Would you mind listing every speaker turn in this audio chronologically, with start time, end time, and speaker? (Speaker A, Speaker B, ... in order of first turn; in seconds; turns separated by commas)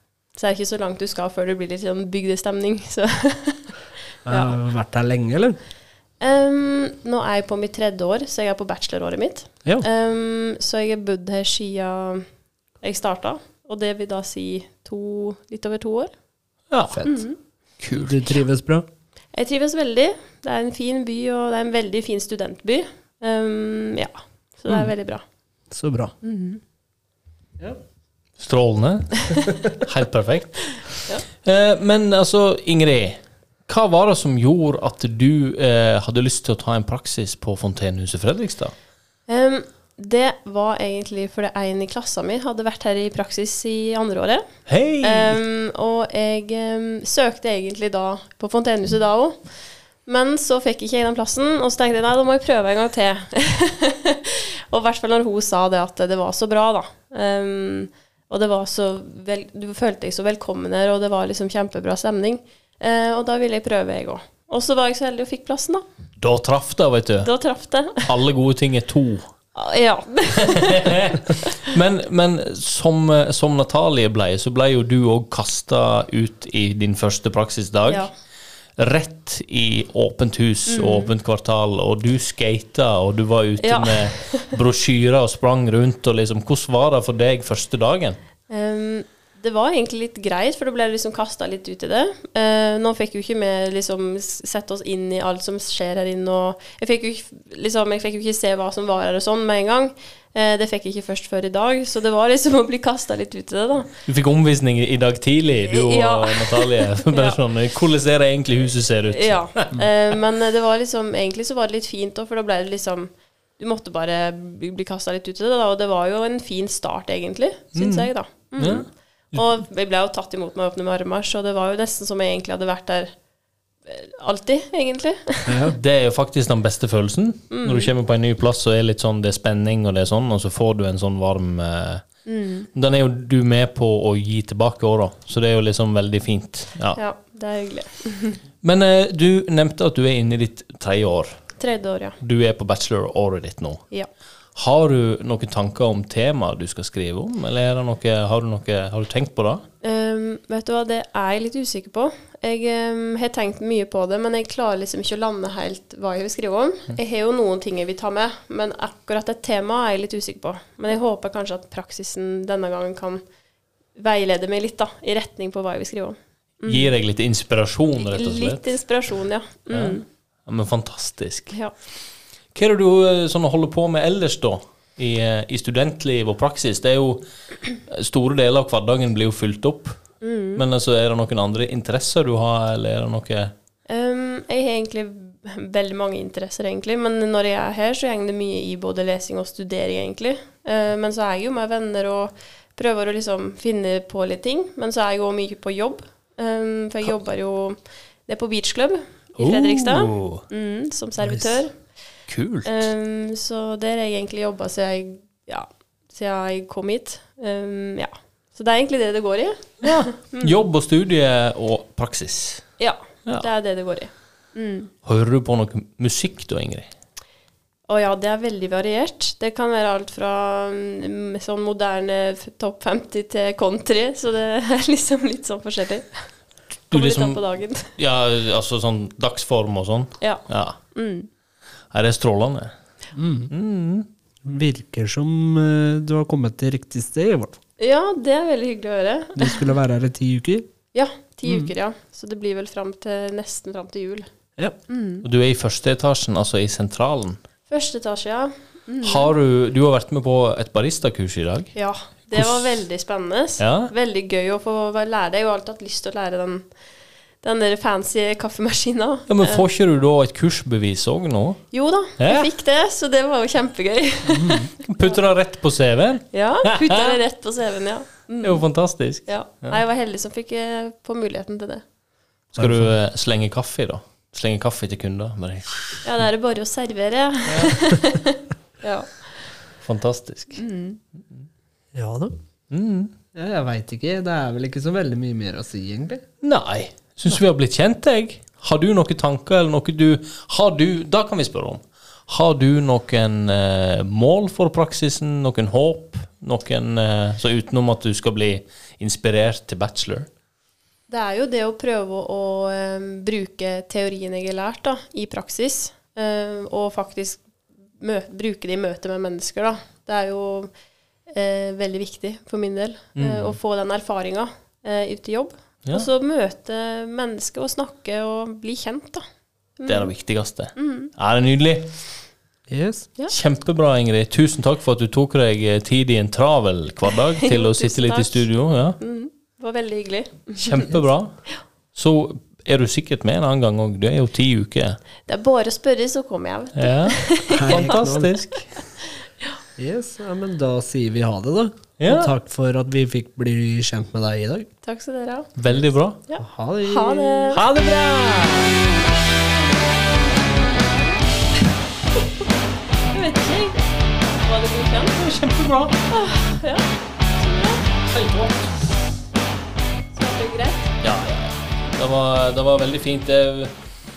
Speaker A: 0.3-3.8, Speaker B: 4.3-5.6, Speaker A: 4.3-4.5, Speaker A: 6.2-12.2, Speaker A: 12.8-16.1, Speaker C: 16.7-17.1, Speaker A: 17.0-17.4, Speaker C: 17.8-18.2, Speaker B: 17.9-18.9, Speaker A: 19.3-25.2, Speaker B: 25.7-26.1, Speaker A: 26.2-26.6, Speaker C: 28.4-38.7, Speaker A: 39.3-44.5, Speaker C: 44.7-45.4, Speaker A: 45.0-49.4, Speaker A: 50.1-65.8, Speaker C: 66.2-67.3, Speaker A: 67.2-68.2, Speaker C: 68.0-69.2, Speaker A: 69.5-71.5, Speaker C: 70.4-78.1, Speaker C: 78.8-88.2, Speaker A: 80.7-81.1, Speaker A: 83.6-84.5, Speaker A: 88.5-103.9, Speaker C: 104.1-109.8, Speaker A: 105.7-107.4, Speaker A: 109.1-123.1, Speaker C: 117.7-119.4, Speaker A: 123.9-125.7, Speaker B: 125.5-125.8, Speaker C: 125.7-132.0, Speaker A: 127.5-127.9, Speaker A: 132.3-132.7, Speaker C: 132.8-137.0, Speaker A: 136.9-138.4, Speaker C: 138.6-141.3, Speaker A: 141.6-142.2, Speaker C: 142.2-143.8, Speaker C: 144.6-149.6, Speaker A: 149.8-163.2, Speaker A: 164.0-166.9, Speaker C: 166.7-168.7, Speaker A: 168.0-170.0, Speaker C: 169.7-171.6, Speaker C: 172.6-180.0, Speaker A: 180.2-180.6, Speaker C: 180.6-183.5, Speaker A: 183.9-201.7, Speaker C: 199.4-200.4, Speaker B: 201.2-201.5, Speaker C: 202.3-202.9, Speaker A: 202.7-210.6, Speaker C: 209.8-212.6, Speaker A: 212.8-214.9, Speaker C: 215.1-216.9, Speaker A: 217.9-226.1, Speaker C: 226.9-227.4, Speaker A: 226.9-227.9, Speaker C: 227.9-230.8, Speaker A: 230.2-231.3, Speaker C: 231.9-232.7, Speaker B: 233.2-233.5, Speaker C: 233.5-234.1, Speaker B: 234.4-237.6, Speaker A: 237.8-239.7, Speaker B: 239.4-240.7, Speaker A: 240.9-244.3, Speaker A: 244.9-245.3, Speaker C: 245.2-247.4, Speaker A: 247.7-249.3, Speaker C: 249.0-251.7, Speaker A: 251.8-256.7, Speaker C: 252.3-252.7, Speaker C: 253.6-253.9, Speaker A: 257.4-259.6, Speaker C: 259.3-261.6, Speaker A: 261.7-265.2, Speaker C: 262.2-262.5, Speaker B: 264.3-264.7, Speaker C: 264.8-267.2, Speaker A: 266.3-268.6, Speaker C: 268.4-269.8, Speaker A: 269.3-271.8, Speaker B: 272.6-272.9, Speaker C: 272.6-276.1, Speaker A: 276.0-279.1, Speaker C: 277.5-277.9, Speaker C: 279.8-280.6, Speaker A: 280.6-281.0, Speaker B: 281.9-282.4, Speaker C: 282.7-283.1, Speaker B: 283.3-286.2, Speaker C: 286.4-300.3, Speaker A: 301.1-307.4, Speaker A: 308.0-310.7, Speaker A: 311.3-319.2, Speaker C: 313.2-313.6, Speaker A: 319.8-320.1, Speaker C: 319.9-321.9, Speaker A: 320.8-321.1, Speaker B: 322.7-323.1, Speaker C: 323.3-329.0, Speaker A: 327.4-330.9, Speaker C: 330.6-331.3, Speaker C: 331.9-335.0, Speaker A: 335.3-338.2, Speaker C: 336.8-338.8, Speaker B: 337.5-338.3, Speaker B: 339.8-344.7, Speaker C: 342.0-342.3, Speaker A: 344.8-345.5, Speaker C: 345.6-346.2, Speaker A: 346.3-347.6, Speaker B: 346.4-347.5, Speaker C: 347.5-348.8, Speaker A: 353.1-353.9, Speaker A: 354.4-355.2, Speaker C: 355.1-356.0, Speaker A: 356.1-356.9, Speaker A: 357.4-357.9, Speaker C: 358.1-358.7, Speaker A: 360.1-360.9, Speaker C: 361.0-363.7